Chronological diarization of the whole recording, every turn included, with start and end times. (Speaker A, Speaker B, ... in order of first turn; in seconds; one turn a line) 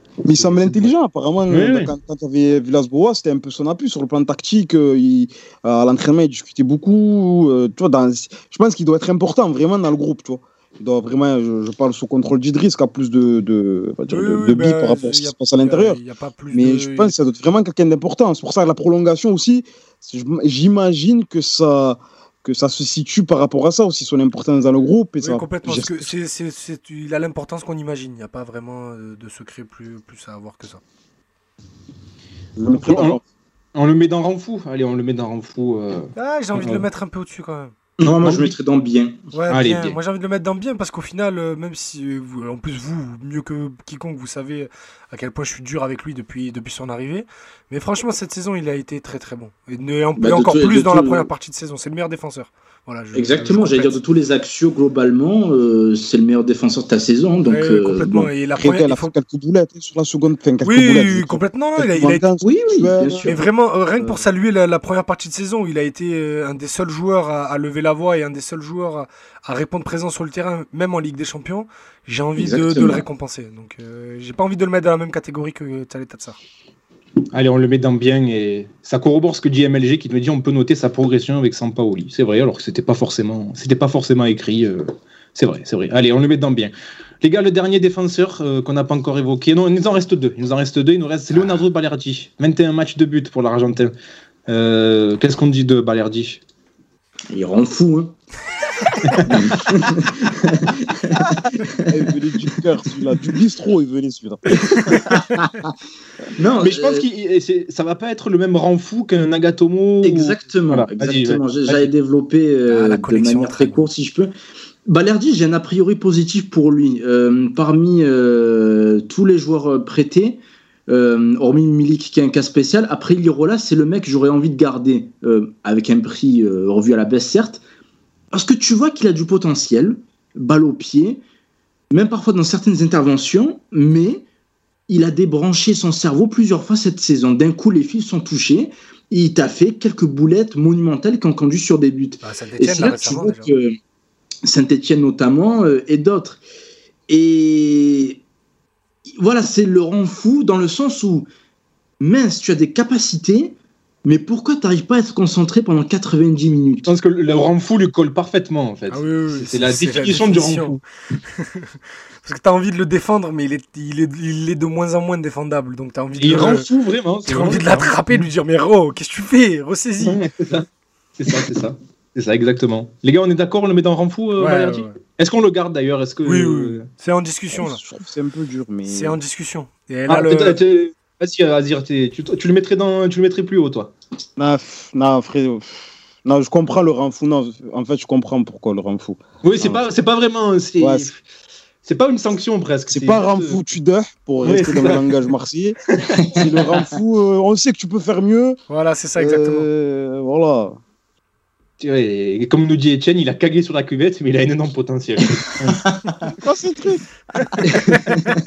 Speaker A: 0.2-16.0
Speaker B: 0.3-0.9
Speaker B: 1.5-1.9
Speaker C: 14.1-17.1
Speaker A: 16.5-26.1
Speaker C: 25.2-30.8
Speaker A: 32.5-33.2
Speaker B: 32.7-33.2
Speaker B: 33.7-36.9
Speaker C: 36.1-37.7
Speaker D: 38.0-39.2
Speaker B: 38.0-38.5
Speaker C: 39.3-54.0
Speaker B: 39.5-40.0
Speaker D: 50.2-51.3
Speaker D: 53.1-58.3
Speaker C: 57.5-59.1
Speaker A: 58.6-63.4
Speaker C: 60.6-62.2
Speaker D: 62.4-63.4
Speaker C: 63.2-76.4
Speaker D: 72.4-73.0
Speaker B: 77.3-93.9
Speaker B: 94.5-96.4
Speaker D: 97.3-98.1
Speaker D: 99.2-101.9
Speaker A: 101.9-104.9
Speaker D: 105.1-105.5
Speaker D: 106.3-107.0
Speaker B: 106.6-111.9
Speaker D: 110.0-114.3
Speaker C: 112.7-113.8
Speaker D: 114.8-127.6
Speaker D: 128.3-131.2
Speaker D: 131.9-134.2
Speaker D: 134.9-143.8
Speaker C: 142.2-143.5
Speaker D: 144.4-146.4
Speaker D: 147.1-148.2
Speaker D: 149.2-151.3
Speaker D: 152.0-156.9
Speaker B: 156.8-160.8
Speaker C: 158.9-166.7
Speaker B: 166.2-168.2
Speaker C: 167.2-170.2
Speaker B: 170.0-176.9
Speaker C: 174.4-175.0
Speaker C: 176.2-177.8
Speaker A: 177.5-179.2
Speaker C: 178.8-180.6
Speaker B: 180.1-183.9
Speaker A: 184.4-189.8
Speaker B: 189.4-191.2
Speaker A: 190.8-191.1
Speaker B: 191.8-193.7
Speaker A: 192.9-195.8
Speaker B: 194.4-195.3
Speaker B: 196.0-196.8
Speaker A: 196.3-198.6
Speaker C: 198.7-199.7
Speaker A: 199.2-200.8
Speaker B: 201.8-205.9
Speaker A: 206.4-207.7
Speaker D: 207.7-208.0